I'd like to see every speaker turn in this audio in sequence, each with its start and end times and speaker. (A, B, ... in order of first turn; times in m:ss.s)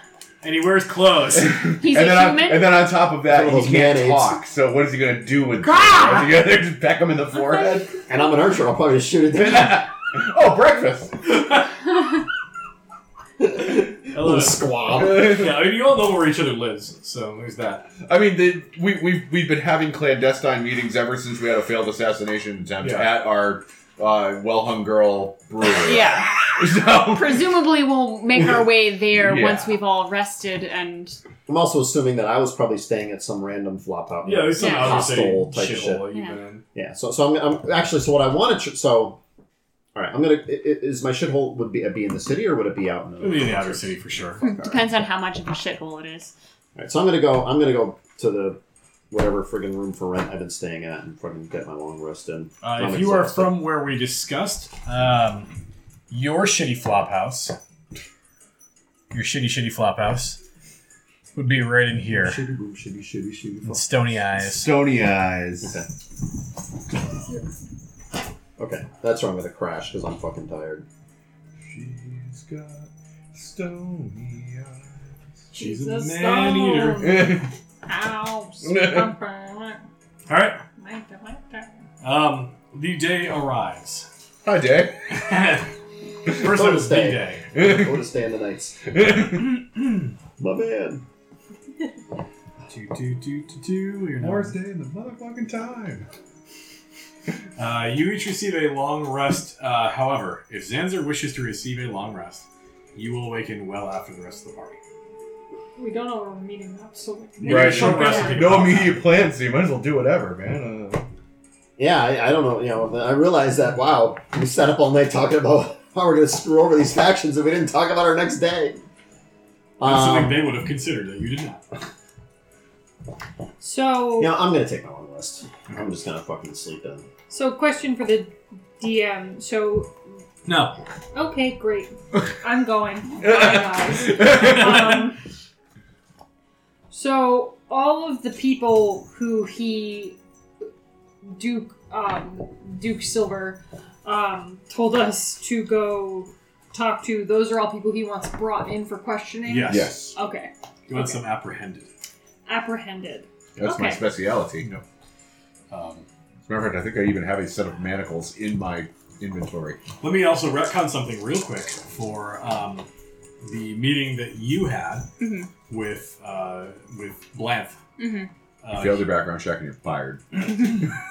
0:00.4-0:01.7 A
0:01.4-0:08.0 B
0:01.8-0:02.9 C
0:03.2-0:04.4 D
0:05.6-0:06.3 E
0:08.1-0:09.9 D
0:09.3-0:11.3 B
0:13.4-0:15.4 D
0:14.1-0:17.9 A
0:15.0-0:15.5 B
0:18.0-0:27.5 B
0:22.8-0:23.1 A
0:25.7-0:31.2 C
0:29.1-0:29.8 B
0:31.5-0:36.1 D
0:34.2-0:36.6 A
0:34.6-0:35.2 C
0:36.1-0:36.4 C
0:36.7-0:39.2 D
0:40.0-0:44.9 D
0:43.2-0:44.4 A
0:44.4-0:46.3 C
0:46.8-0:48.6 D
0:49.1-0:53.6 D
0:52.6-0:55.6 A
0:56.1-0:57.6 A
0:59.1-1:00.4 A
1:01.4-1:02.4 A
1:02.2-1:03.9 D
1:03.6-1:04.8 A
1:04.4-1:05.8 B
1:05.6-1:05.9 D
1:07.1-1:07.6 E
1:08.6-1:10.8 D
1:11.6-1:15.1 B
1:15.5-1:19.8 E
1:15.5-1:17.3 A
1:17.0-1:17.5 B
1:18.6-1:19.1 B
1:20.3-1:20.6 A
1:20.8-1:21.8 E
1:22.0-1:24.1 A
1:24.4-1:25.0 B
1:25.1-1:25.7 A
1:26.3-1:27.5 A
1:26.4-1:28.8 D
1:27.5-1:28.0 B
1:28.9-1:29.6 B
1:30.4-1:31.0 D
1:32.7-1:34.6 A
1:34.2-1:36.1 B
1:37.6-1:44.8 A
1:45.8-1:48.4 E
1:47.4-1:49.0 A
1:47.4-1:51.1 B
1:47.9-1:48.4 C
1:51.8-1:58.8 D
1:59.8-2:00.4 D
1:59.8-2:01.6 A
2:03.6-2:04.4 E
2:04.2-2:07.1 D
2:07.3-2:09.9 E
2:10.4-2:10.8 A
2:11.1-2:15.2 E
2:13.2-2:15.1 B
2:16.9-2:20.2 E
2:21.2-2:31.2 E
2:29.4-2:30.0 A
2:29.7-2:30.2 B
2:30.9-2:31.9 A
2:32.5-2:34.1 E
2:33.6-2:34.7 B
2:34.6-2:34.8 A
2:35.7-2:36.1 A
2:36.4-2:39.8 B
2:40.0-2:42.9 A
2:43.4-2:45.1 A
2:45.2-2:45.5 C
2:45.7-2:47.8 A
2:48.0-2:48.3 C
2:48.6-2:49.1 A
2:48.7-2:50.8 B